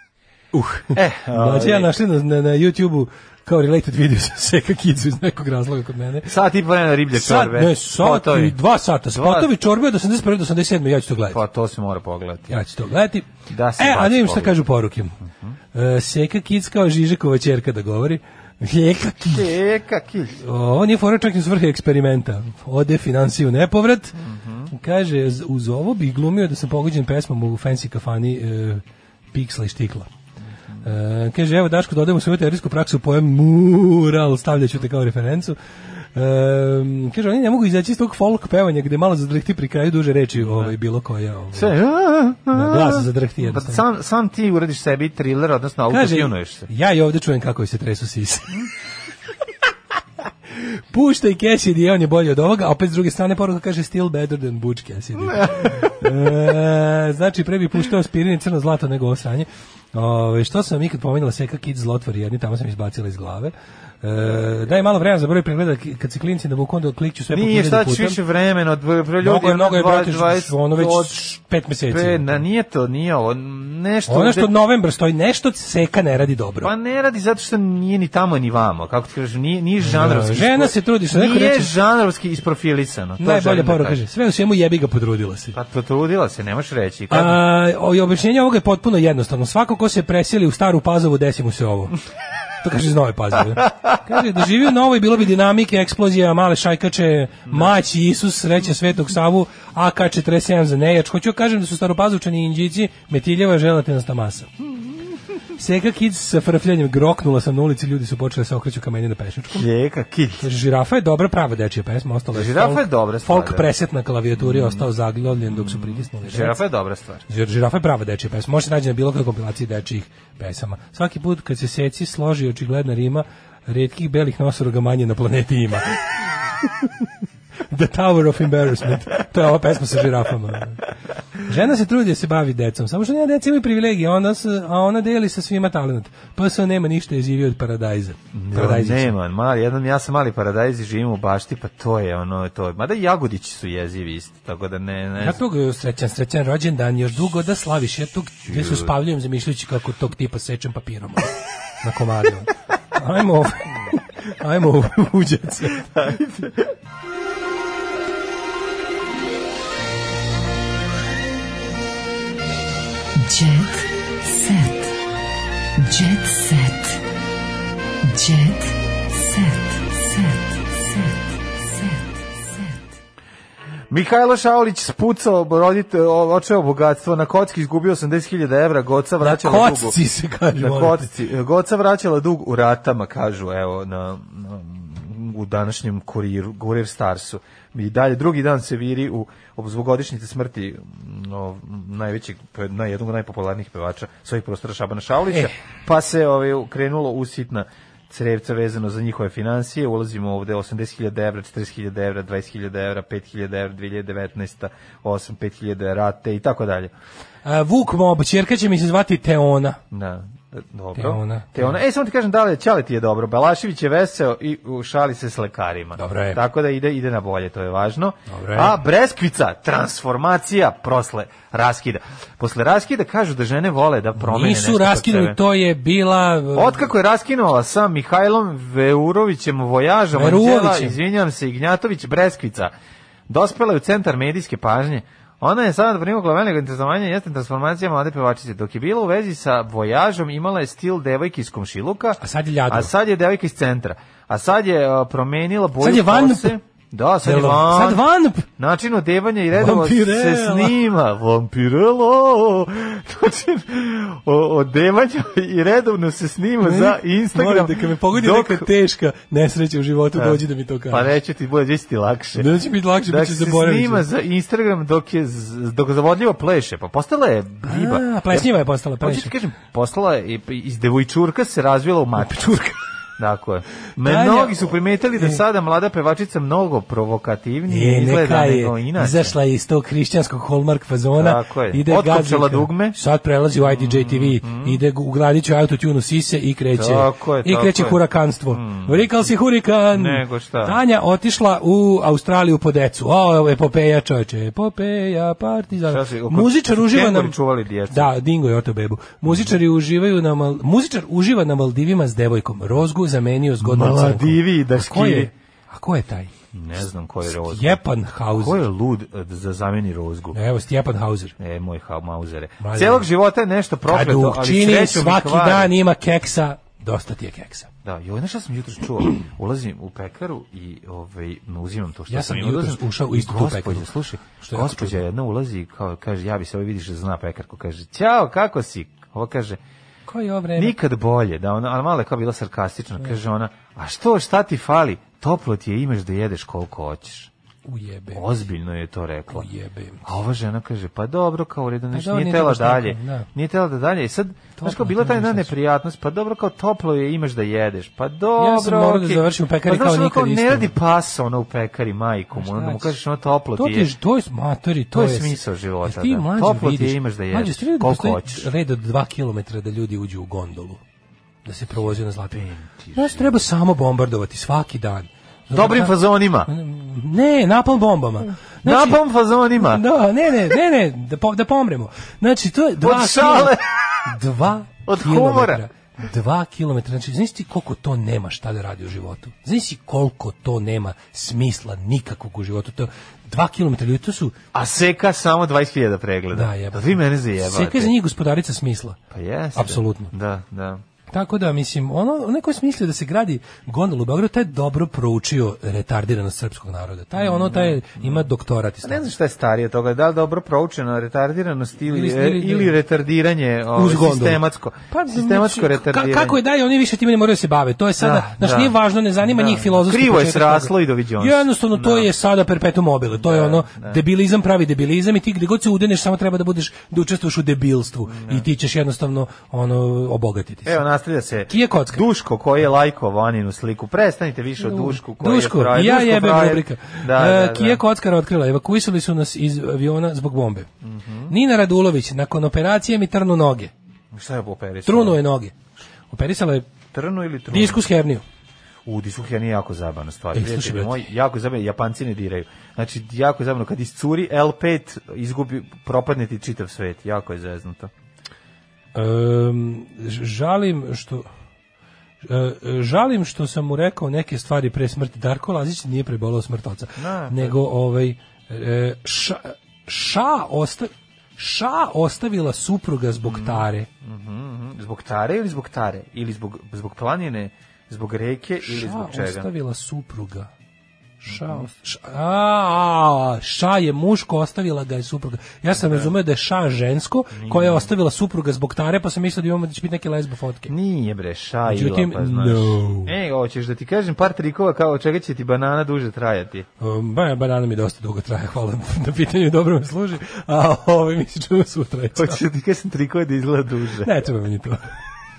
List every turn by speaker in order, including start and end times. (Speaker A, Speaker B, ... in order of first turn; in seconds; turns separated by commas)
Speaker A: 0.5-6.3, Speaker B: 0.8-1.9, Speaker B: 6.2-8.6, Speaker A: 7.1-11.4, Speaker B: 9.1-9.5, Speaker B: 11.3-12.6, Speaker A: 12.5-15.1, Speaker B: 13.5-14.6, Speaker A: 15.7-19.5, Speaker B: 19.3-20.4, Speaker A: 20.4-24.2, Speaker B: 24.1-24.7, Speaker A: 24.7-30.1, Speaker A: 30.8-41.7, Speaker B: 40.4-40.7, Speaker B: 41.5-46.7, Speaker A: 42.5-43.8, Speaker A: 45.9-48.6, Speaker A: 50.6-68.2, Speaker B: 67.3-71.2, Speaker A: 69.2-72.4, Speaker B: 71.9-74.5, Speaker A: 74.1-76.7, Speaker B: 76.6-84.0, Speaker A: 79.8-81.7, Speaker A: 83.2-85.5, Speaker B: 85.5-87.4, Speaker A: 87.1-91.9, Speaker A: 92.6-104.5, Speaker B: 97.5-97.7, Speaker A: 105.6-109.7, Speaker B: 109.5-110.5, Speaker A: 110.4-116.6, Speaker B: 112.3-113.7, Speaker B: 114.4-114.9, Speaker B: 115.5-117.2, Speaker A: 117.3-126.0, Speaker A: 126.6-127.1, Speaker A: 127.7-130.8, Speaker A: 131.4-139.1, Speaker B: 138.3-145.4, Speaker A: 145.2-155.9, Speaker B: 148.4-148.9, Speaker B: 155.9-156.7, Speaker C: 163.2-164.7, Speaker C: 165.8-166.9, Speaker C: 168.1-170.3, Speaker B: 173.9-180.0, Speaker A: 179.2-181.1, Speaker B: 180.5-206.9, Speaker A: 207.4-209.8, Speaker B: 209.9-225.4, Speaker A: 210.9-211.8, Speaker A: 216.0-216.4, Speaker A: 218.3-218.8, Speaker A: 224.2-226.8, Speaker B: 226.5-232.7, Speaker A: 230.1-230.9, Speaker B: 233.3-258.7, Speaker A: 242.2-242.9, Speaker A: 245.8-246.6, Speaker A: 247.2-248.4, Speaker A: 249.5-250.8, Speaker A: 256.6-261.1, Speaker B: 260.1-262.5, Speaker A: 262.4-264.1, Speaker B: 263.0-272.5, Speaker A: 267.6-269.3, Speaker A: 272.2-272.8, Speaker B: 273.2-279.4, Speaker A: 274.0-275.4, Speaker A: 277.7-297.4, Speaker B: 281.2-283.0, Speaker B: 283.6-284.8, Speaker B: 286.7-289.2, Speaker B: 289.9-290.8, Speaker B: 295.8-298.1, Speaker A: 297.9-306.3, Speaker B: 299.2-299.6, Speaker B: 303.6-305.3, Speaker B: 306.5-310.4, Speaker A: 307.3-308.6, Speaker A: 310.3-311.3, Speaker B: 311.4-315.7, Speaker A: 312.6-313.1, Speaker A: 313.9-317.7, Speaker B: 317.8-329.6, Speaker A: 322.1-323.9, Speaker A: 324.4-325.0, Speaker A: 330.1-330.8, Speaker B: 330.6-337.3, Speaker A: 337.6-338.3, Speaker B: 338.1-339.5, Speaker A: 339.3-340.0, Speaker B: 340.0-353.9, Speaker A: 341.9-343.3, Speaker A: 344.6-345.5, Speaker A: 348.4-350.7, Speaker A: 352.3-352.9, Speaker A: 353.5-360.8, Speaker B: 354.9-358.5, Speaker A: 361.4-362.4, Speaker B: 362.3-363.4, Speaker A: 362.9-369.0, Speaker B: 365.5-366.5, Speaker B: 368.6-369.8, Speaker A: 369.6-384.3, Speaker B: 372.8-373.7, Speaker B: 374.9-375.6, Speaker B: 384.5-387.9, Speaker A: 386.3-389.0, Speaker B: 389.1-390.8, Speaker A: 389.5-390.1, Speaker A: 391.1-399.1, Speaker B: 397.2-398.3, Speaker B: 398.8-406.4, Speaker A: 401.9-402.8, Speaker A: 403.7-420.8, Speaker B: 408.0-412.1, Speaker B: 413.1-414.0, Speaker B: 418.1-418.5, Speaker B: 420.6-427.8, Speaker A: 421.5-422.0, Speaker A: 424.6-430.7, Speaker B: 430.8-431.3, Speaker A: 431.3-433.7, Speaker B: 434.1-435.2, Speaker A: 434.9-435.5, Speaker A: 436.1-436.7, Speaker B: 436.9-437.8, Speaker A: 437.5-438.2, Speaker B: 438.9-447.9, Speaker A: 440.3-441.0, Speaker A: 448.9-451.3, Speaker A: 452.2-463.9, Speaker B: 457.0-457.6, Speaker B: 463.2-469.5, Speaker A: 468.6-470.5, Speaker A: 471.2-480.7, Speaker B: 471.3-471.7, Speaker B: 475.7-476.1, Speaker B: 477.3-477.9, Speaker B: 480.7-486.7, Speaker A: 481.7-483.1, Speaker A: 486.8-492.4, Speaker B: 492.1-494.1, Speaker A: 494.0-494.8